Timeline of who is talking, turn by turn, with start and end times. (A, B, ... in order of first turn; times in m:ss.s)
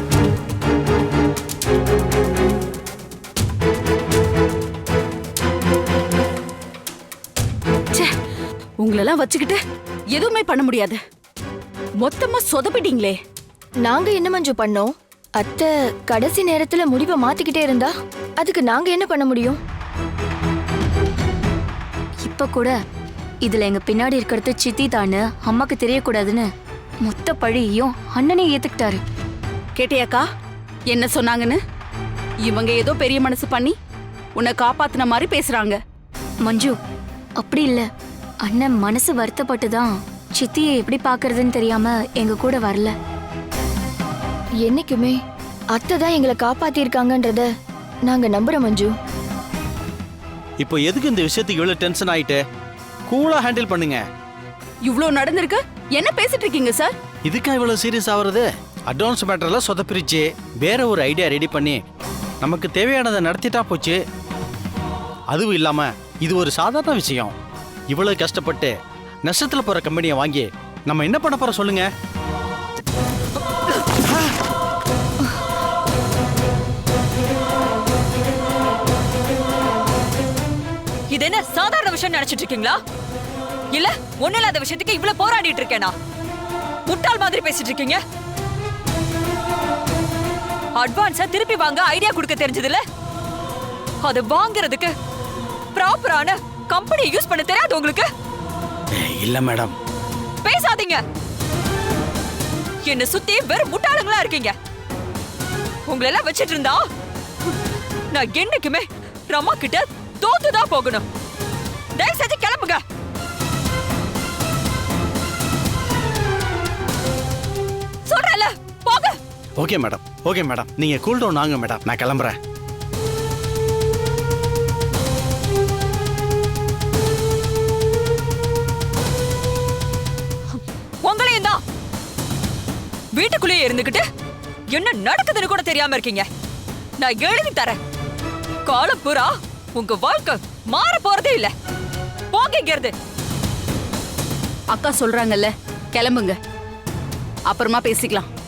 0:08.8-0:09.6 A
0:10.1-0:11.0 A
0:12.0-0:13.2 A
0:13.8-0:19.6 B
0:22.3-0:22.7 C
0:23.4-0:26.4 C
0:27.0-0:29.0 C
0:29.8-0:30.2 A
0:30.9-0:31.6 A
0:32.4-0:33.8 A
0:34.3-0:35.8 A
0:36.4-0:36.7 C
0:37.4-0:37.8 C
0:38.5-0:42.9 C
0:44.6-0:45.2 B
0:45.7-0:47.5 B
0:48.0-0:48.9 B
0:50.6-0:52.4 D
0:53.1-0:54.0 D
0:54.8-0:56.9 A
0:57.2-1:01.8 D
1:02.4-1:04.0 D
1:05.3-1:07.3 D
1:07.9-1:08.7 D
1:09.2-1:11.9 D
1:21.1-1:22.8 E
1:23.7-1:25.9 E
1:26.9-1:28.0 E
1:30.8-1:32.8 E
1:34.0-1:34.9 E
1:35.7-1:38.1 E
1:38.9-1:39.7 D
1:40.4-1:41.0 E
1:42.8-1:44.5 E
1:45.9-1:46.8 E
1:48.1-1:51.0 E
1:52.0-1:52.8 E
1:58.0-1:59.2 E
1:59.6-2:02.3 D
2:11.0-2:11.6 E
2:13.1-2:14.0 E
2:14.7-2:16.2 E
2:17.0-2:17.8 E
2:18.6-2:21.5 E
2:22.3-2:22.9 E
2:24.7-2:26.4 A
2:27.5-2:28.3 A